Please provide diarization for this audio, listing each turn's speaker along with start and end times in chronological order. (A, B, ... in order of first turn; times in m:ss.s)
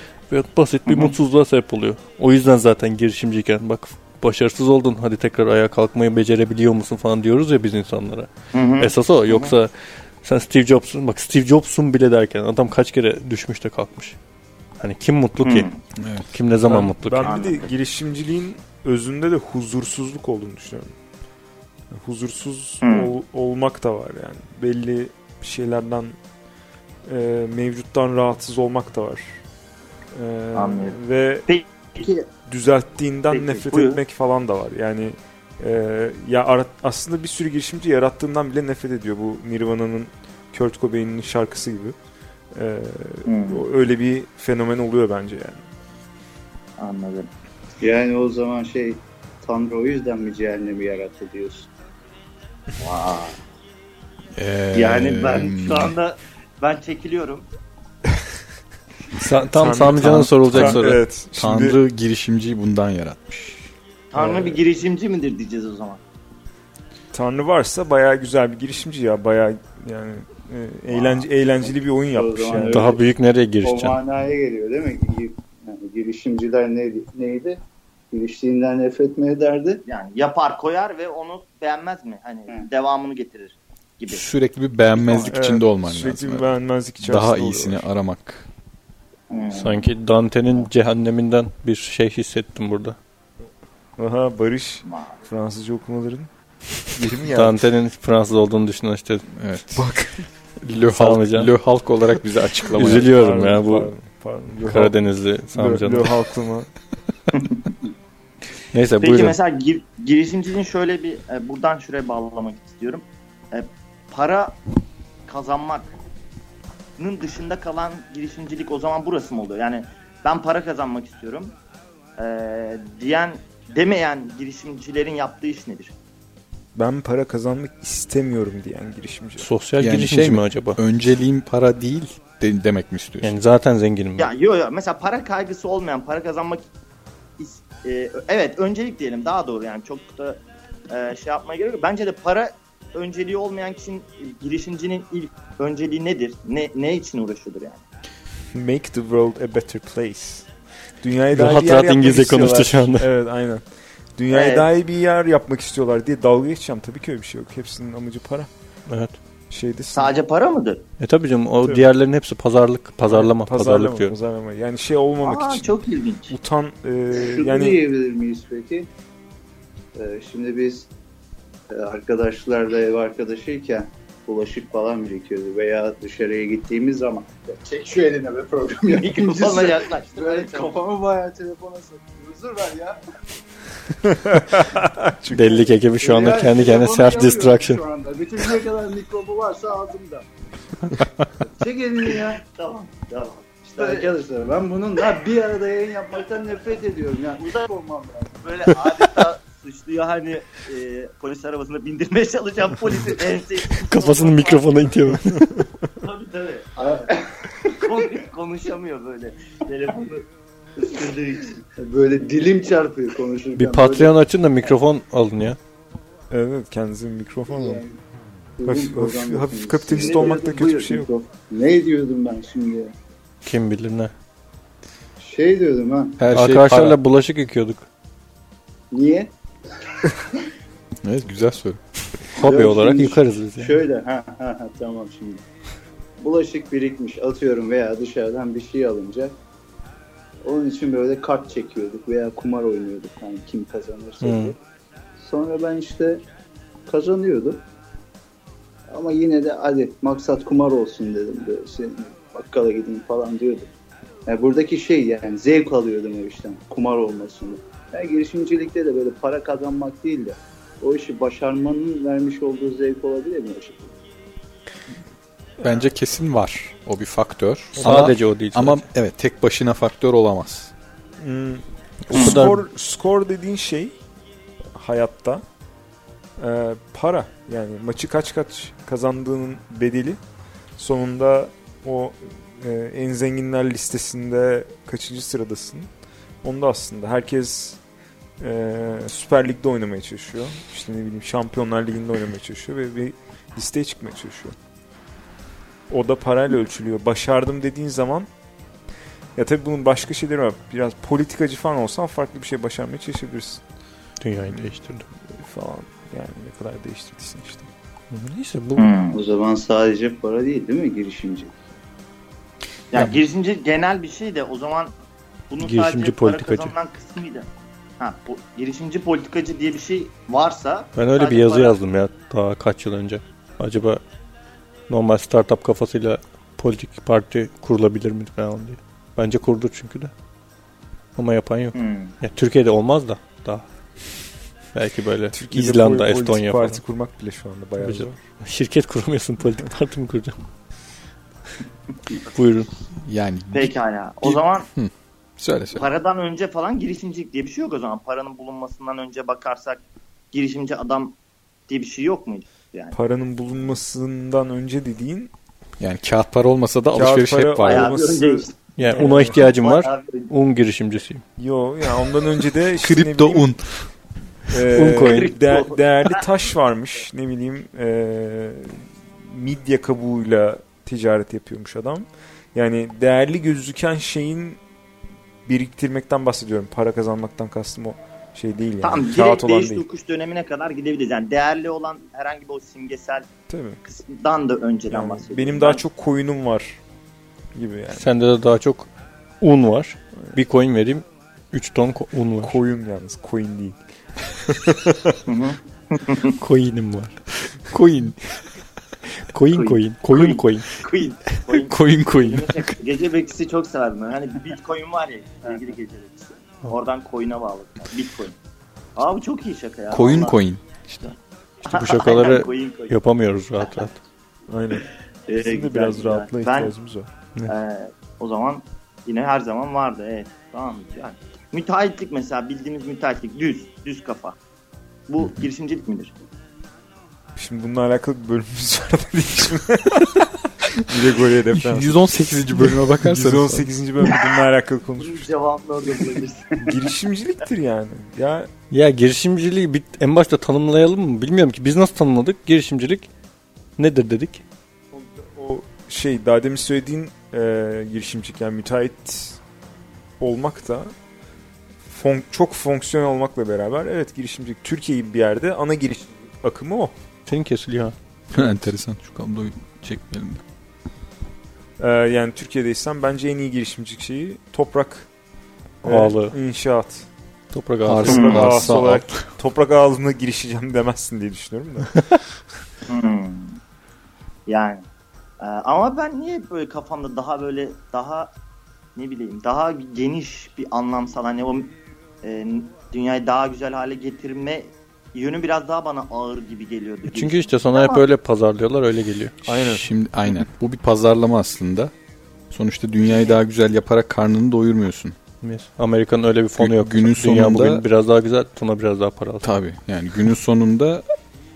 0:00.3-0:09.7 A
0:00.9-0:01.2 B
0:08.5-0:09.5 B
0:10.2-0:14.2 A
0:14.8-0:15.7 A
0:15.4-0:15.8 B
0:16.0-0:16.3 C
0:16.3-0:17.4 A
0:16.7-0:20.9 D
0:17.2-0:17.7 B
0:21.9-0:26.2 D
0:22.8-0:23.1 B
0:27.1-0:29.4 D
0:30.1-0:31.5 D
0:30.5-0:32.3 B
0:32.5-0:42.0 D
0:33.3-0:34.0 B
0:42.5-0:45.7 D
0:43.3-0:43.7 B
0:46.8-0:47.3 B
0:47.8-0:51.7 E
0:52.8-0:53.4 B
0:54.4-0:56.0 C
0:54.7-0:57.5 B
0:59.2-1:01.0 A
0:59.2-1:01.8 D
1:00.0-1:03.7 C
1:04.1-1:06.0 B
1:04.1-1:04.6 E
1:07.1-1:12.9 D
1:11.6-1:13.0 E
1:12.7-1:14.0 A
1:13.6-1:19.8 E
1:19.9-1:24.2 B
1:24.1-1:26.5 C
1:24.9-1:25.4 B
1:25.3-1:27.9 D
1:27.0-1:28.5 C
1:29.3-1:29.6 E
1:29.3-1:29.8 B
1:29.5-1:33.0 A
1:34.0-1:36.3 D
1:34.8-1:35.2 B
1:36.9-1:37.6 D
1:37.3-1:39.4 A
1:39.4-1:39.7 C
1:39.7-1:40.3 D
1:40.6-1:43.1 C
1:40.9-1:41.5 A
1:42.7-1:43.9 A
1:43.0-1:45.0 D
1:44.6-1:46.1 A
1:45.5-1:46.7 D
1:47.3-1:47.7 B
1:48.7-1:49.4 A
1:49.0-1:54.6 B
1:55.3-1:55.9 B
1:57.0-2:01.6 B
2:02.2-2:06.0 B
2:06.8-2:09.5 D
2:09.4-2:10.8 A
2:09.8-2:13.4 C
2:13.2-2:14.3 A
2:14.2-2:16.6 B
2:17.4-2:27.8 B
2:28.5-2:30.5 D
2:31.0-2:38.5 D
2:31.3-2:33.1 A
2:34.3-2:34.7 B
2:38.9-2:39.2 A
2:39.5-2:40.1 D
2:39.9-2:40.8 B
2:41.0-2:44.1 A
2:43.1-2:45.8 D
2:45.2-2:46.3 B
2:46.3-2:47.8 D
2:47.1-2:48.9 E
2:50.0-2:50.9 E
2:51.7-3:03.0 E
2:58.9-3:00.8 B
3:04.0-3:05.7 D
3:05.3-3:07.8 A
3:06.0-3:10.3 E
3:11.4-3:12.4 E
3:12.4-3:14.1 B
3:13.8-3:19.1 E
3:18.4-3:25.0 B
3:23.8-3:25.6 A
3:26.0-3:27.1 B
3:26.8-3:27.7 E
3:27.7-3:30.3 B
3:30.8-3:31.6 B
3:31.7-3:34.1 E
3:33.6-3:35.6 A
3:36.3-3:37.8 D
3:37.5-3:38.0 E
3:38.6-3:42.9 E
3:38.6-3:41.1 D
3:43.4-3:44.1 A
3:45.2-3:46.2 E
3:46.2-3:47.0 C
3:46.3-3:47.8 A
3:48.9-3:49.3 E
3:51.0-3:51.8 C
3:52.4-3:53.8 A
3:52.4-3:55.4 E
3:56.2-3:59.4 E
4:00.4-4:04.6 E
4:04.2-4:04.5 A
4:05.2-4:06.2 E
4:06.9-4:07.6 E
4:08.9-4:13.7 E
4:14.3-4:23.9 E
4:25.6-4:30.7 C
4:27.8-4:28.9 A
4:31.2-4:34.0 D
4:32.1-4:32.7 A
4:32.2-4:32.5 C
4:34.7-4:35.4 D
4:36.4-4:40.2 D
4:40.8-4:45.9 D
4:46.4-4:47.8 D
4:48.4-4:54.6 D
4:55.9-4:58.3 D
4:59.4-5:03.6 D
5:04.2-5:05.1 A
5:05.3-5:07.7 D
5:08.1-5:08.9 A
5:08.8-5:09.2 B
5:09.1-5:11.6 E
5:12.9-5:14.9 B
5:15.5-5:17.5 B
5:15.6-5:16.7 A
5:18.0-5:21.8 B
5:21.0-5:24.0 A
5:24.9-5:30.1 A
5:31.2-5:33.7 A
5:31.7-5:32.1 B
5:34.7-5:36.8 A
5:35.3-5:38.2 D
5:37.8-5:40.4 A
5:42.3-5:42.7 A
5:43.0-5:45.8 C
5:43.5-5:44.7 B
5:45.7-5:51.2 B
5:51.7-5:53.0 B
5:52.9-5:55.3 D
5:55.8-5:58.0 C
5:56.9-5:59.4 D
5:57.6-6:00.3 B
5:58.8-6:01.2 A
6:01.4-6:03.5 D
6:02.8-6:03.9 C
6:04.5-6:14.6 D
6:04.7-6:05.4 A
6:05.1-6:05.8 B
6:15.5-6:19.9 D
6:18.8-6:23.3 B
6:23.5-6:23.8 D
6:23.8-6:25.8 B
6:24.9-6:26.8 D
6:27.6-6:28.0 D
6:28.0-6:28.9 A
6:29.4-6:32.6 A
6:32.4-6:33.8 D
6:34.5-6:35.2 D
6:35.3-6:36.4 B
6:36.4-6:37.2 A
6:37.7-6:38.2 A
6:39.3-6:40.7 A
6:39.5-6:48.4 B
6:41.8-6:42.5 C
6:49.0-6:50.4 B
6:49.9-6:50.9 C
6:51.6-6:53.0 B
6:51.6-6:54.0 A
6:53.6-6:53.9 B
6:54.5-6:54.9 D
6:55.3-6:56.7 B
6:55.4-6:57.1 D
6:57.5-7:04.4 B
7:05.1-7:06.2 B
7:07.4-7:12.0 D
7:11.5-7:13.7 C
7:12.6-7:15.3 D
7:15.0-7:16.7 B
7:16.6-7:18.5 D
7:18.7-7:23.1 A
7:23.8-7:24.4 A
7:24.9-7:29.4 D
7:30.2-7:30.9 D
7:31.8-7:36.9 D
7:37.3-7:38.0 A
7:38.3-7:40.4 C
7:41.8-7:45.1 D
7:45.8-7:47.1 D
7:45.8-7:46.4 A
7:47.5-7:48.7 A
7:47.8-7:49.3 C
7:48.0-7:52.0 D
7:48.1-7:48.4 B
7:52.9-7:53.6 B
7:54.5-7:54.8 B
7:55.4-7:58.3 B
7:59.0-8:08.1 B
8:07.1-8:09.5 A
8:09.4-8:09.8 D
8:09.6-8:11.9 C
8:12.5-8:15.2 C
8:15.4-8:19.5 A
8:16.6-8:17.8 C
8:19.4-8:21.0 C